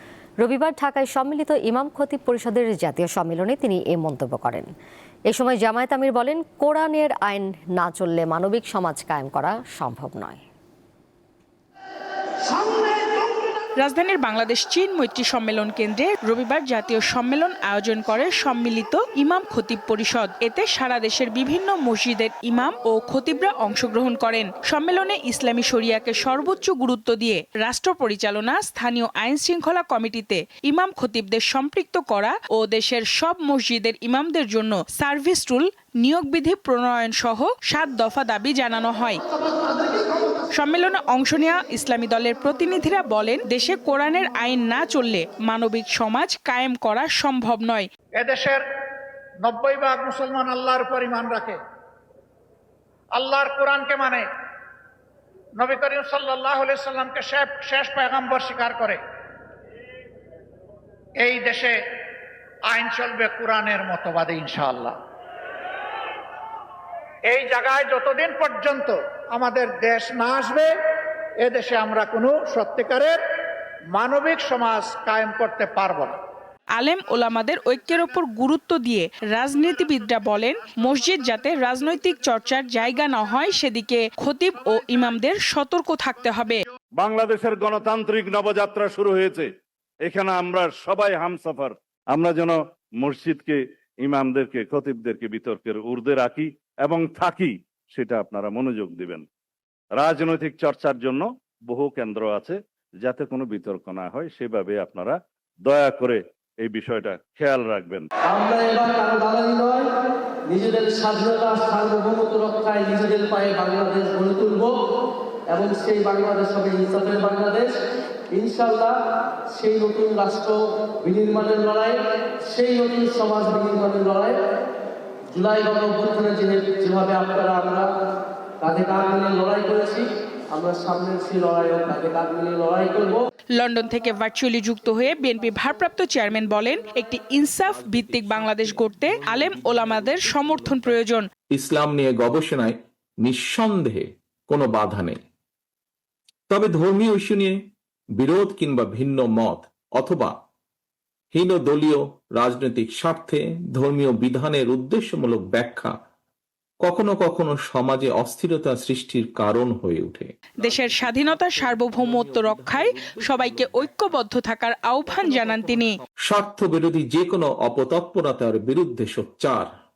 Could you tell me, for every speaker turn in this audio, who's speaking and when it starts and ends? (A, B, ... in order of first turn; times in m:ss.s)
0:00.4-0:04.7 A
0:05.3-0:10.4 A
0:13.8-0:39.2 B
0:40.5-0:47.9 B
0:48.2-0:48.6 C
0:49.4-0:51.6 C
0:53.1-0:54.2 C
0:55.6-0:59.0 C
1:01.2-1:01.8 C
1:02.7-1:04.9 C
1:07.3-1:10.7 C
1:11.4-1:13.2 C
1:13.9-1:16.1 C
1:16.7-1:26.6 B
1:27.0-1:29.5 D
1:30.0-1:39.2 D
1:40.0-1:48.1 D
1:48.2-1:49.9 E
1:50.5-1:54.8 E
1:55.5-1:57.7 E
1:58.3-1:59.0 E
1:59.5-2:04.4 E
2:05.3-2:07.9 E
2:08.6-2:13.2 E
2:13.6-2:21.3 B
2:17.7-2:21.0 F
2:21.5-2:25.2 F
2:26.5-2:27.6 F
2:28.2-2:30.3 F
2:31.3-2:35.9 F
2:36.8-2:43.9 F
2:40.6-2:46.0 B
2:45.1-2:49.7 F